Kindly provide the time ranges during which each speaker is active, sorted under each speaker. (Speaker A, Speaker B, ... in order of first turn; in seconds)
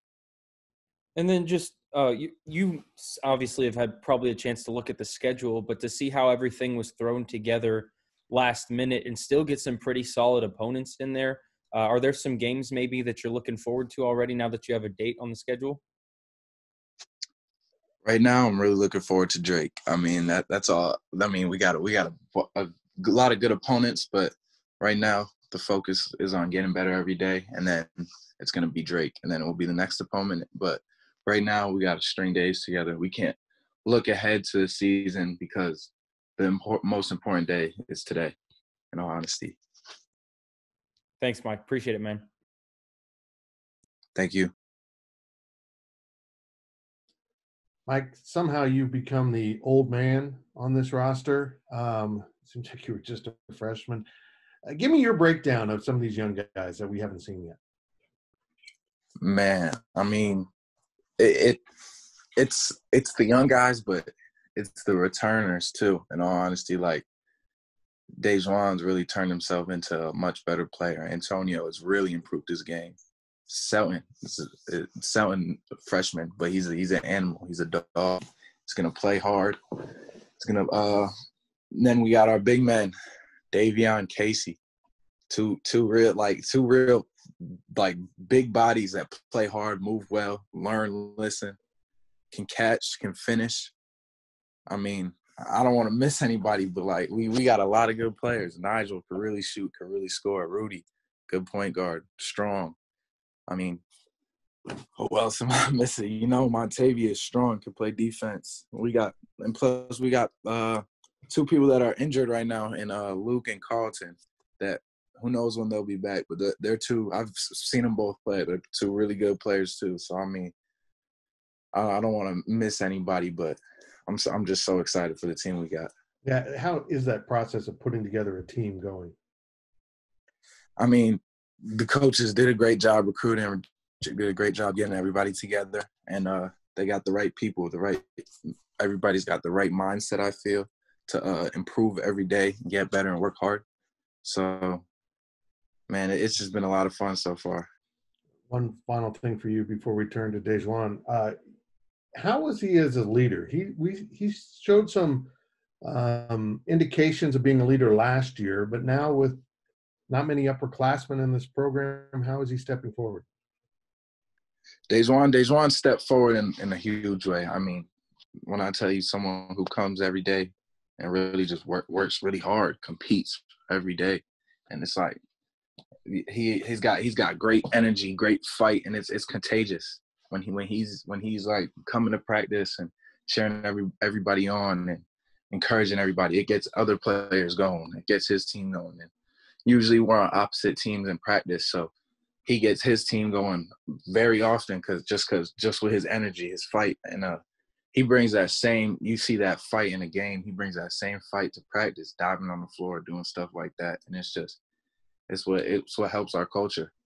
Speaker A: 1.2-15.8, 41.2-42.3
Speaker B: 18.1-38.4, 38.9-39.6, 44.1-44.5, 59.2-60.5, 61.2-61.6, 62.4-67.0, 68.2-73.0, 73.5-79.6, 80.4-81.1, 81.7-82.9, 83.5-84.6, 85.3-87.1, 87.7-91.6, 92.3-93.7, 94.7-102.8, 103.5-103.8, 105.0-120.5, 121.8-125.9, 130.8-138.0, 138.8-143.6, 144.2-144.8, 145.9-147.7, 164.9-167.9, 168.5-175.2, 176.1-189.1, 189.7-191.9, 192.5-197.4, 197.9-204.6, 205.3-206.9
Speaker C: 47.9-54.0, 54.7-57.6, 126.2-129.2, 148.5-151.4, 152.2-155.3, 155.8-159.4, 160.1-163.2